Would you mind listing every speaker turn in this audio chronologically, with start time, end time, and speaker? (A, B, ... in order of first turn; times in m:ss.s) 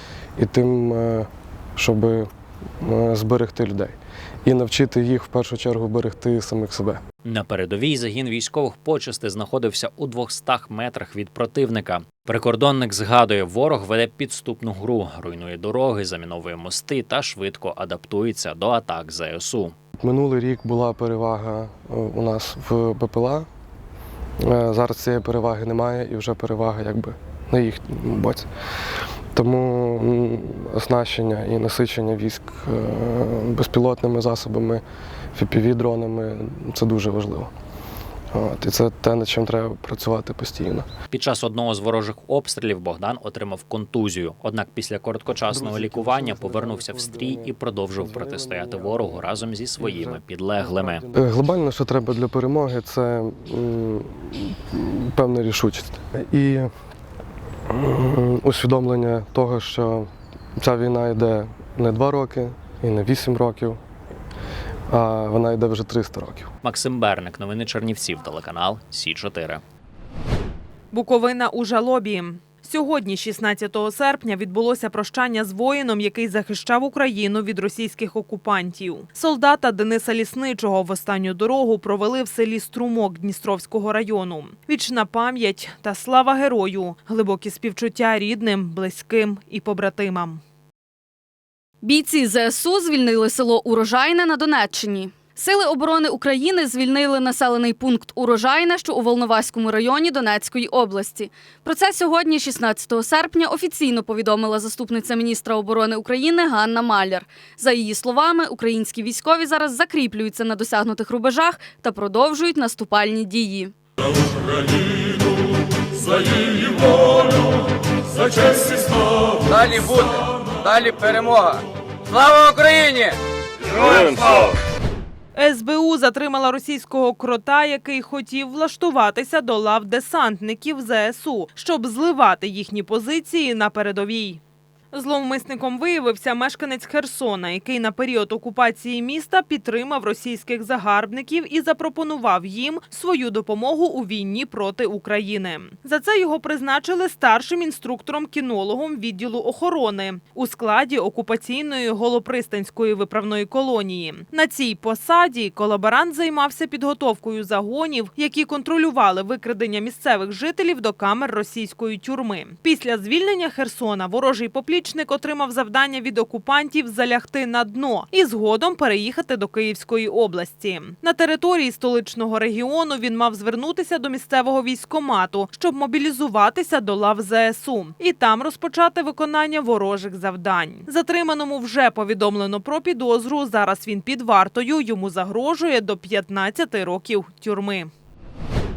0:00.4-0:02.3 A
0:02.8-0:07.0 A
0:07.2-0:19.8 B
0:20.0-0:23.5 A
0:24.4-0:28.5 A
0:29.4-0:34.8 A
0:35.4-0:37.5 A
0:38.3-0:40.9 A
0:41.1-0:51.1 B
0:45.5-0:56.7 A
0:57.7-1:03.8 A
1:04.9-1:06.5 A
1:06.6-1:09.6 B
1:10.9-1:30.4 C
1:31.8-1:53.7 D
1:59.5-2:01.6 E
2:02.1-2:03.1 E
2:03.8-2:04.4 E
2:05.4-2:14.4 C
2:14.9-3:07.9 C